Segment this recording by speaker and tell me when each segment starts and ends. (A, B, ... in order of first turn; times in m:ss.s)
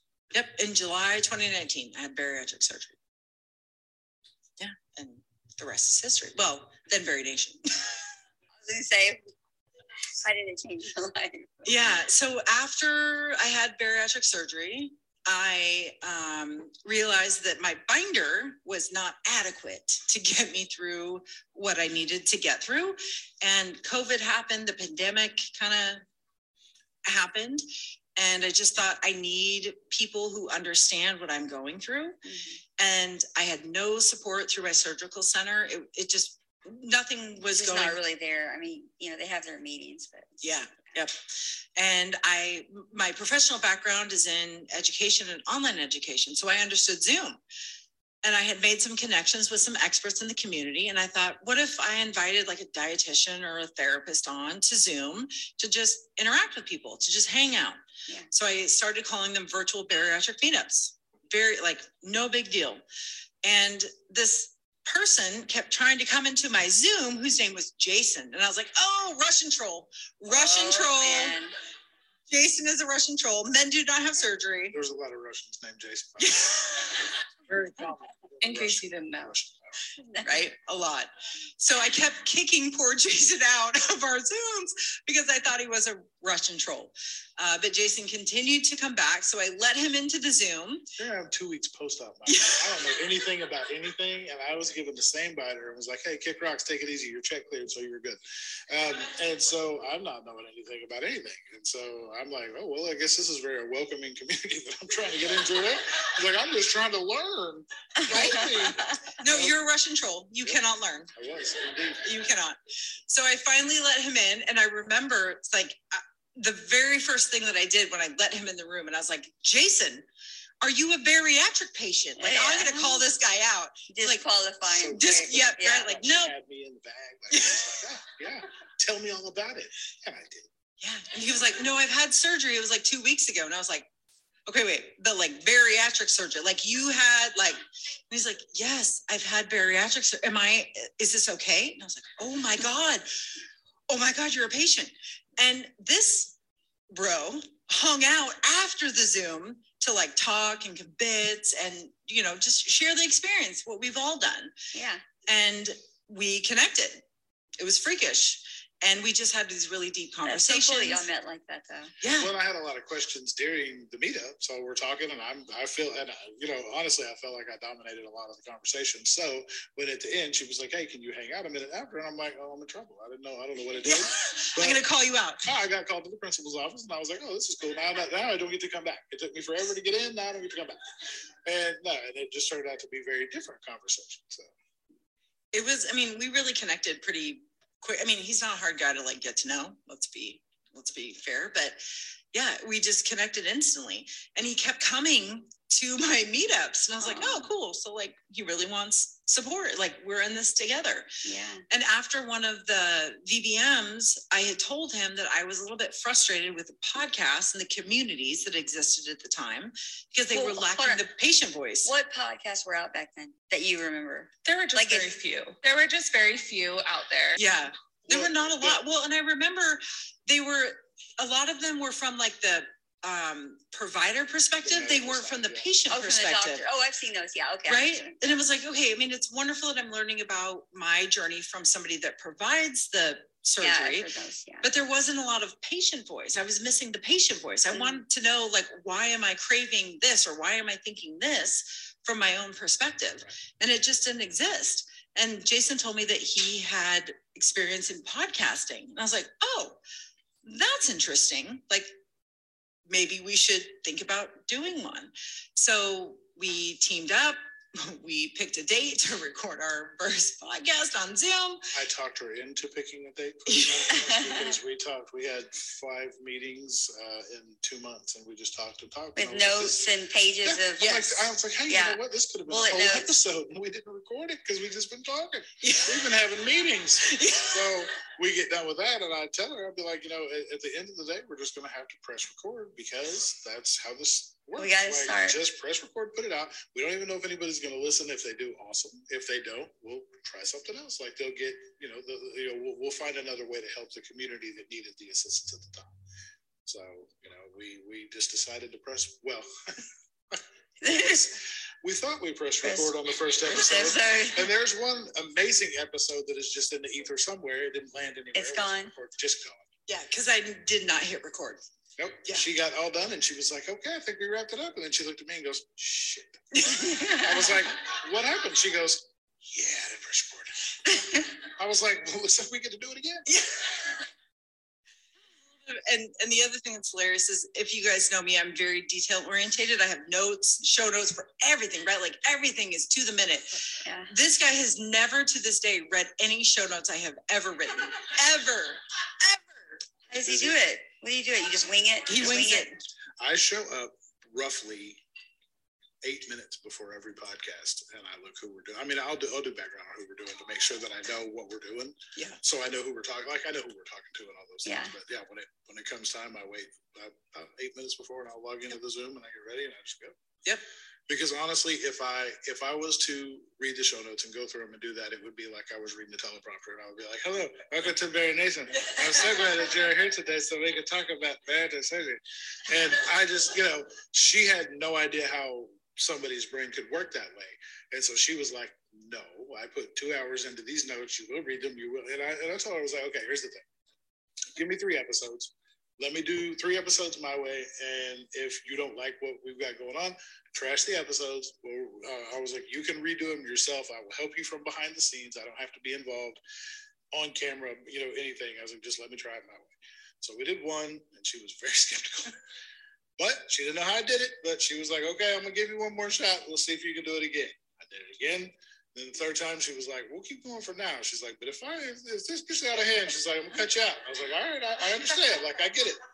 0:00.3-0:03.0 A
0:04.6-0:08.0 A
0:08.6-0:09.3 B
0:10.2-0:11.9 B
0:11.6-0:26.0 A
0:27.0-0:27.6 A
0:28.2-0:32.2 A
0:32.2-0:32.6 B
0:32.8-0:38.0 A
0:37.5-0:40.4 B
0:40.4-0:41.2 A
0:41.8-0:47.4 A
0:48.2-1:02.8 A
1:03.4-1:11.4 A
1:10.3-1:11.5 B
1:12.3-1:14.7 A
1:14.7-1:16.6 C
1:16.2-1:17.1 A
1:17.5-1:19.7 C
1:18.4-1:19.4 D
1:20.1-1:20.4 B
1:20.2-1:30.8 A
1:31.0-1:49.6 C
1:32.3-1:32.8 A
1:48.1-1:48.6 A
1:49.2-1:51.1 A
1:50.4-1:52.2 C
1:52.0-2:00.0 A
2:00.6-2:04.2 A
2:02.2-2:03.0 B
2:03.9-2:05.9 B
2:04.7-2:10.5 C
2:04.9-2:06.3 A
2:07.3-2:07.8 A
2:10.8-2:13.9 A
2:14.5-2:23.1 A
2:23.9-2:26.3 A
2:26.9-2:34.5 A
2:34.7-2:35.0 B
2:35.3-2:37.0 A
2:37.6-2:41.1 A
2:40.2-2:41.9 B
2:42.0-2:42.3 A
2:42.2-2:54.8 C
2:53.8-2:55.4 A
2:55.4-3:00.8 C
3:01.4-3:04.5 C
3:05.5-3:11.8 A
3:12.3-3:21.1 A
3:17.0-3:17.5 B
3:21.2-3:21.6 B
3:21.7-3:31.9 A
3:30.3-3:31.0 B
3:31.8-3:35.2 B
3:34.4-3:37.4 D
3:37.4-3:46.6 A
3:38.1-3:38.8 C
3:44.6-3:45.7 C
3:45.9-3:48.2 B
3:47.7-3:54.1 A
3:53.6-3:54.7 B
3:54.6-4:09.8 A
3:57.7-3:58.0 B
4:10.4-4:11.9 A
4:12.9-4:21.7 A
4:21.7-4:29.9 C
4:23.5-4:24.0 A
4:24.0-4:24.5 B
4:29.2-4:33.1 B
4:30.4-4:56.0 C
4:30.8-4:31.1 A
4:35.6-4:36.1 A
4:37.0-4:37.7 A
4:44.6-4:45.4 B
4:56.6-4:59.8 C
5:00.3-5:09.6 C
5:00.8-5:01.2 B
5:02.6-5:02.9 B
5:03.5-5:04.5 B
5:08.3-5:08.9 B
5:09.9-5:11.6 A
5:12.0-5:20.6 C
5:16.5-5:17.5 A
5:20.9-5:21.2 B
5:21.4-5:23.3 C
5:23.3-5:23.9 A
5:25.5-5:39.8 A
5:33.8-5:34.1 B
5:40.1-5:42.7 B
5:40.3-5:40.5 C
5:42.1-5:42.8 A
5:43.2-5:45.0 C
5:46.0-6:00.2 C
5:54.6-5:54.9 B
6:01.1-6:23.6 C
6:08.8-6:09.5 A
6:24.6-6:36.4 C
6:37.1-6:42.4 C
6:43.2-6:56.0 C